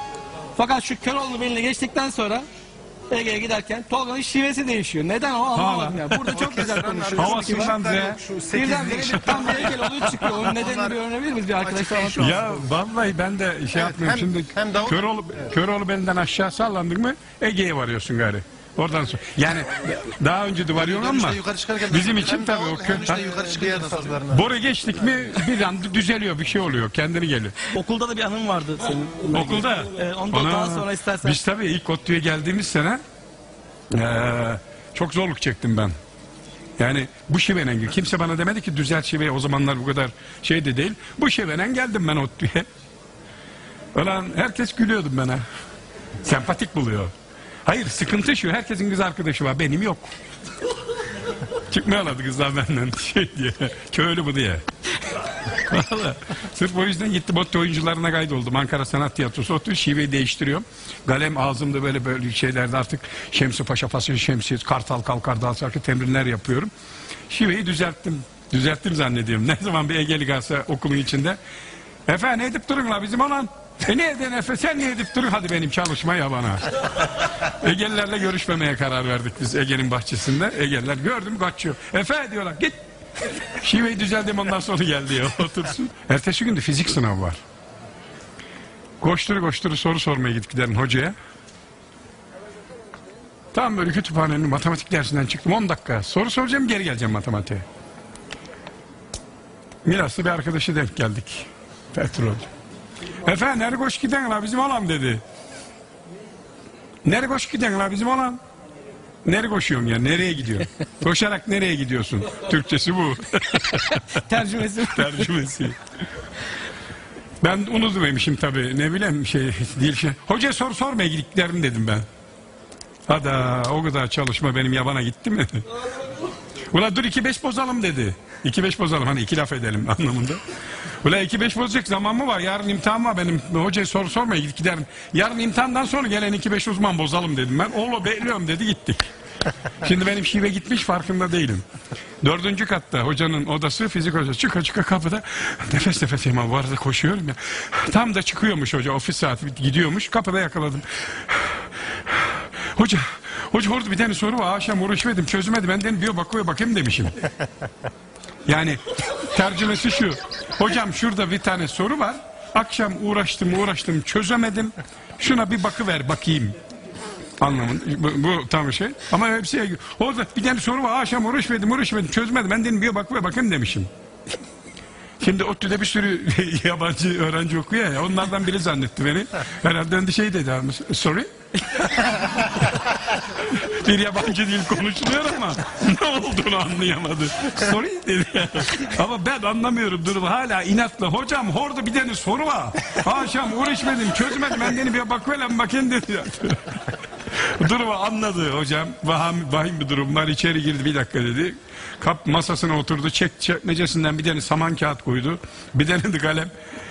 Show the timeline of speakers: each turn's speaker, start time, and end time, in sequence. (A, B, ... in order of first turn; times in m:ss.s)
0:00.6-0:02.5 A
0:03.1-0:07.8 A
0:05.5-0:08.2 B
0:06.3-0:09.2 C
0:08.5-0:12.4 A
0:08.9-0:10.4 B
0:10.2-0:11.0 C
0:11.6-0:12.7 C
0:12.2-0:23.4 B
0:13.8-0:15.4 C
0:20.8-0:24.5 C
0:24.3-0:27.6 B
0:27.7-0:31.4 A
0:29.3-0:33.0 B
0:33.9-0:36.0 B
0:36.8-0:42.7 B
0:43.9-0:45.4 B
0:46.2-0:47.1 B
0:47.6-0:50.1 B
0:51.6-0:54.6 B
0:55.3-1:06.7 B
1:07.3-1:11.4 B
1:12.1-1:27.4 B
1:29.0-1:31.2 B
1:33.5-1:37.6 B
1:39.8-1:42.5 B
1:43.2-1:45.2 B
1:47.0-1:48.4 B
1:49.2-1:55.8 B
1:54.1-1:55.3 A
1:57.4-2:02.1 B
2:03.1-2:05.7 B
2:06.7-2:10.4 B
2:11.0-2:19.0 B
2:19.8-2:21.6 B
2:22.2-2:37.2 B
2:38.5-2:46.6 B
2:47.4-2:53.9 B
2:55.2-3:26.5 B